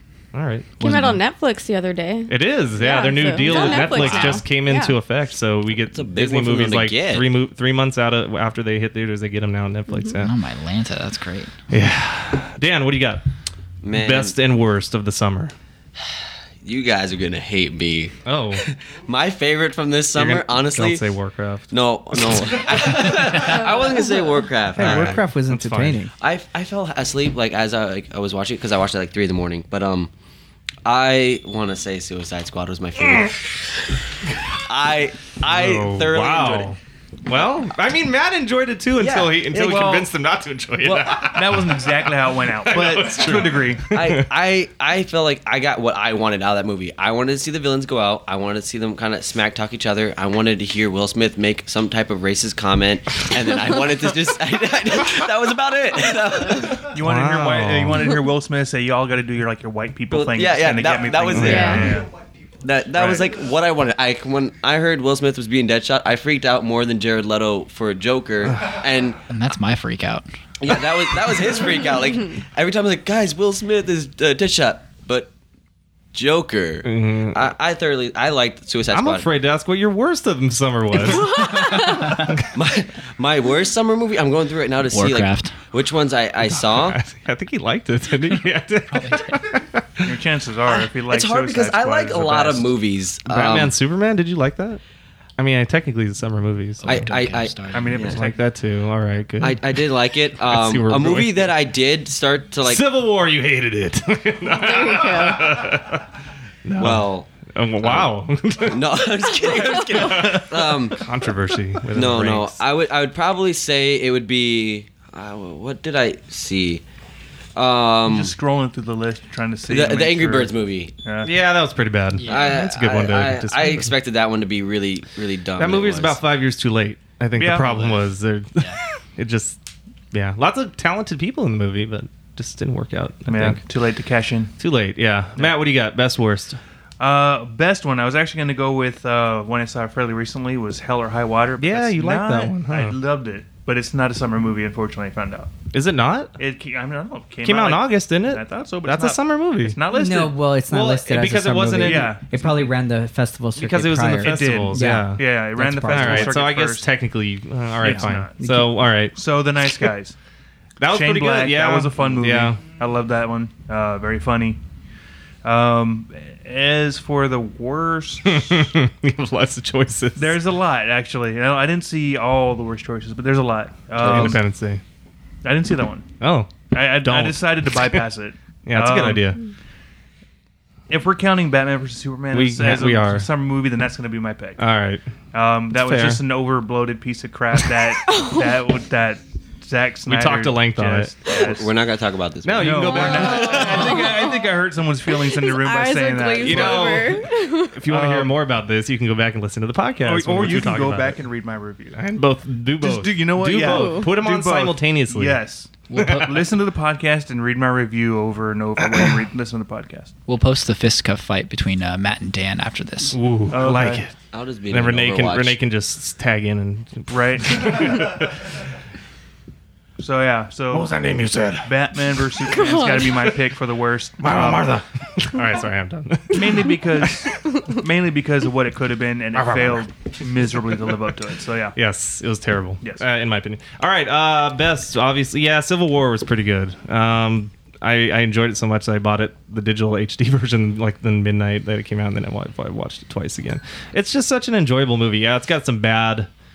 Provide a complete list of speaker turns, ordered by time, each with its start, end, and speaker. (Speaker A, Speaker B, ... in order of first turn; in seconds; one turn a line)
Speaker A: 0.3-0.9
Speaker B: 0.8-1.2
Speaker C: 0.8-4.9
Speaker A: 2.3-10.3
Speaker B: 3.4-4.4
Speaker D: 5.9-7.3
Speaker C: 9.9-10.2
Speaker B: 10.2-11.6
Speaker A: 11.7-13.2
Speaker D: 13.8-14.3
Speaker A: 13.9-15.5
Speaker D: 16.6-21.1
Speaker A: 18.2-18.6
Speaker A: 20.1-23.3
Speaker D: 21.7-25.2
Speaker C: 23.5-23.9
Speaker A: 24.8-26.0
Speaker E: 24.8-26.1
Speaker D: 26.2-30.1
Speaker D: 30.8-33.7
Speaker D: 34.5-36.7
Speaker A: 35.5-44.3
Speaker D: 39.0-39.9
Speaker F: 39.6-40.1
Speaker F: 40.8-44.0
Speaker D: 43.9-56.9
Speaker F: 56.8-62.1
Speaker A: 57.0-58.1
Speaker D: 60.1-62.0
Speaker A: 61.3-61.9
Speaker C: 61.4-62.0
Speaker D: 62.6-69.2
Speaker F: 62.9-63.3
Speaker A: 68.5-68.8
Speaker B: 69.3-70.2
Speaker D: 70.6-75.3
Speaker D: 76.1-79.3
Speaker A: 76.8-77.5
Speaker A: 78.9-82.4
Speaker C: 81.0-82.2
Speaker D: 82.5-87.0
Speaker B: 84.9-85.5
Speaker A: 86.4-90.1
Speaker B: 88.9-89.4
Speaker F: 90.0-92.7
Speaker D: 90.7-93.7
Speaker A: 93.3-94.8
Speaker A: 95.4-97.1
Speaker B: 96.8-98.1
Speaker D: 96.8-98.2
Speaker F: 97.7-98.4
Speaker A: 98.0-101.5
Speaker D: 99.4-102.8
Speaker A: 102.6-106.0
Speaker C: 104.5-105.7
Speaker A: 106.6-112.6
Speaker D: 106.8-107.3
Speaker D: 107.8-111.1
Speaker D: 111.9-116.8
Speaker D: 117.5-118.3
Speaker F: 118.0-121.3
Speaker D: 119.7-120.9
Speaker A: 121.2-123.9
Speaker B: 122.1-122.7
Speaker D: 122.2-126.2
Speaker A: 125.6-129.6
Speaker F: 127.4-127.8
Speaker B: 127.6-128.0
Speaker A: 130.1-133.6
Speaker F: 133.3-134.5
Speaker A: 134.6-136.6
Speaker F: 137.0-145.5
Speaker A: 141.6-143.0
Speaker A: 145.7-146.3
Speaker F: 146.4-150.4
Speaker A: 147.4-149.8
Speaker E: 149.9-156.4
Speaker A: 150.7-152.2
Speaker F: 151.8-152.6
Speaker A: 153.6-155.2
Speaker F: 154.2-156.9
Speaker A: 155.9-159.9
Speaker F: 157.8-158.4
Speaker E: 157.8-158.7
Speaker F: 159.1-160.2
Speaker A: 160.8-162.6
Speaker F: 160.8-164.6
Speaker F: 165.4-168.5
Speaker A: 168.2-170.4
Speaker F: 170.2-174.4
Speaker A: 174.0-174.8
Speaker D: 174.1-174.3
Speaker F: 175.4-176.1
Speaker A: 176.2-178.0
Speaker F: 176.7-179.3
Speaker A: 178.7-179.4
Speaker F: 180.9-184.6
Speaker A: 182.3-183.3
Speaker A: 184.6-185.0
Speaker F: 185.3-191.7
Speaker A: 185.7-186.2
Speaker C: 188.0-188.6
Speaker A: 190.1-191.3
Speaker D: 191.3-193.9
Speaker A: 192.4-194.3
Speaker F: 192.6-197.1
Speaker C: 193.1-197.8
Speaker A: 196.4-201.2
Speaker F: 197.9-198.3
Speaker F: 200.0-202.0
Speaker A: 201.9-205.4
Speaker F: 202.8-210.1
Speaker C: 203.5-204.1
Speaker B: 205.9-206.4
Speaker A: 205.9-206.4
Speaker B: 210.3-213.2
Speaker A: 213.1-214.1
Speaker F: 213.5-214.0
Speaker D: 214.3-215.6
Speaker A: 214.7-218.5
Speaker F: 217.1-218.1
Speaker F: 220.0-220.9
Speaker A: 220.7-221.7
Speaker F: 221.6-224.7
Speaker C: 222.5-223.4
Speaker A: 224.2-227.4
Speaker F: 226.3-231.8
Speaker A: 229.3-230.1
Speaker A: 230.7-231.0
Speaker A: 231.8-246.3